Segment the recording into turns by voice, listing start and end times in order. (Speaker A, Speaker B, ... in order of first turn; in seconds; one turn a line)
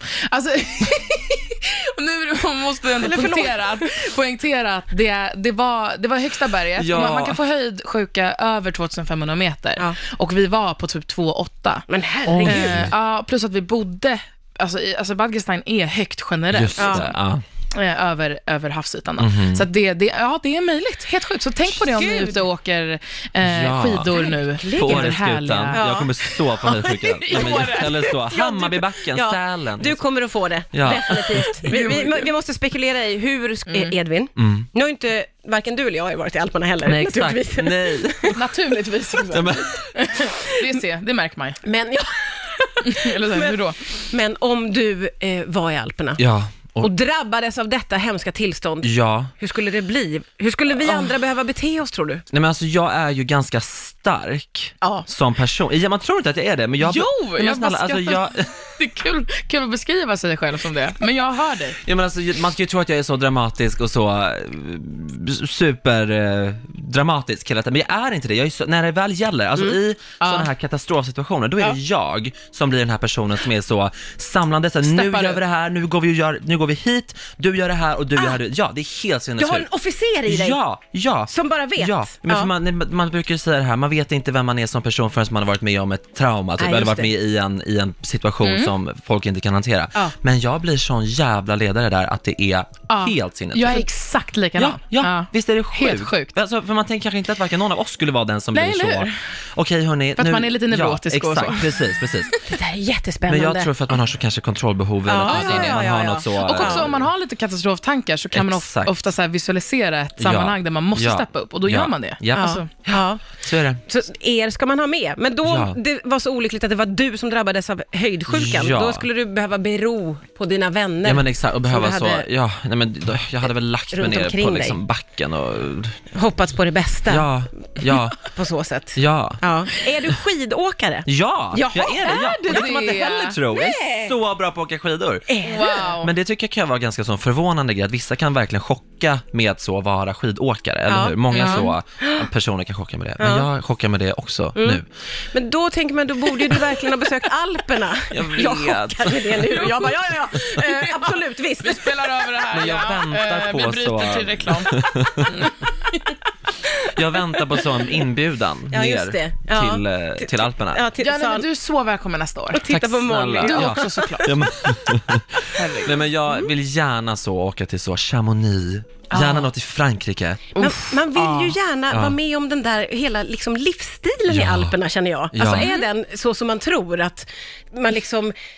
Speaker A: 0.2-11.9
Speaker B: 3.0-3.9
Speaker C: 6.8-7.4
Speaker B: 11.9-12.9
Speaker C: 12.3-12.9
Speaker A: 12.4-17.1
Speaker C: 16.5-17.4
Speaker B: 16.8-17.1
Speaker A: 17.7-25.9
Speaker C: 19.2-19.7
Speaker B: 21.7-22.4
Speaker C: 23.4-30.0
Speaker B: 24.1-25.2
Speaker B: 25.7-26.1
Speaker A: 26.6-28.2
Speaker B: 27.3-38.4
Speaker C: 30.7-31.5
Speaker A: 31.4-32.3
Speaker A: 33.7-34.0
Speaker C: 34.4-34.7
Speaker C: 36.9-38.4
Speaker A: 38.3-41.6
Speaker C: 39.3-39.9
Speaker B: 41.6-46.2
Speaker A: 42.8-43.8
Speaker C: 46.2-46.9
Speaker B: 46.8-52.2
Speaker C: 48.8-49.3
Speaker C: 52.3-58.5
Speaker B: 54.8-55.1
Speaker A: 56.8-61.8
Speaker C: 61.9-79.7
Speaker A: 70.2-70.5
Speaker A: 74.8-75.4
Speaker B: 79.4-80.6
Speaker C: 80.3-93.9
Speaker B: 81.3-82.5
Speaker B: 86.6-87.1
Speaker A: 88.4-88.7
Speaker A: 92.9-96.3
Speaker C: 94.6-102.4
Speaker A: 98.5-99.2
Speaker A: 100.2-102.4
Speaker B: 102.5-103.7
Speaker C: 103.3-107.1
Speaker B: 105.1-106.9
Speaker A: 105.3-112.7
Speaker C: 108.3-108.9
Speaker C: 110.2-113.8
Speaker B: 112.3-113.3
Speaker B: 113.8-122.3
Speaker C: 115.4-115.8
Speaker C: 118.3-119.1
Speaker C: 121.0-126.0
Speaker B: 123.9-124.8
Speaker B: 126.1-127.3
Speaker C: 127.1-128.2
Speaker B: 128.2-132.1
Speaker C: 128.9-129.4
Speaker C: 131.1-135.3
Speaker A: 132.0-133.4
Speaker B: 133.5-134.2
Speaker B: 135.3-135.9
Speaker A: 135.4-136.1
Speaker C: 135.8-144.9
Speaker B: 140.9-142.2
Speaker A: 141.3-141.7
Speaker B: 143.2-143.5
Speaker B: 144.6-152.2
Speaker C: 148.1-149.8
Speaker A: 150.5-156.2
Speaker C: 152.5-155.5
Speaker C: 156.9-160.9
Speaker B: 158.7-161.5
Speaker A: 161.0-162.7
Speaker B: 162.5-164.3
Speaker C: 162.7-170.6
Speaker A: 163.4-164.5
Speaker A: 165.5-166.1
Speaker B: 169.1-169.4
Speaker B: 170.6-178.3
Speaker A: 170.6-171.6
Speaker C: 171.9-172.2
Speaker C: 174.3-174.8
Speaker C: 175.3-175.7
Speaker A: 175.5-175.9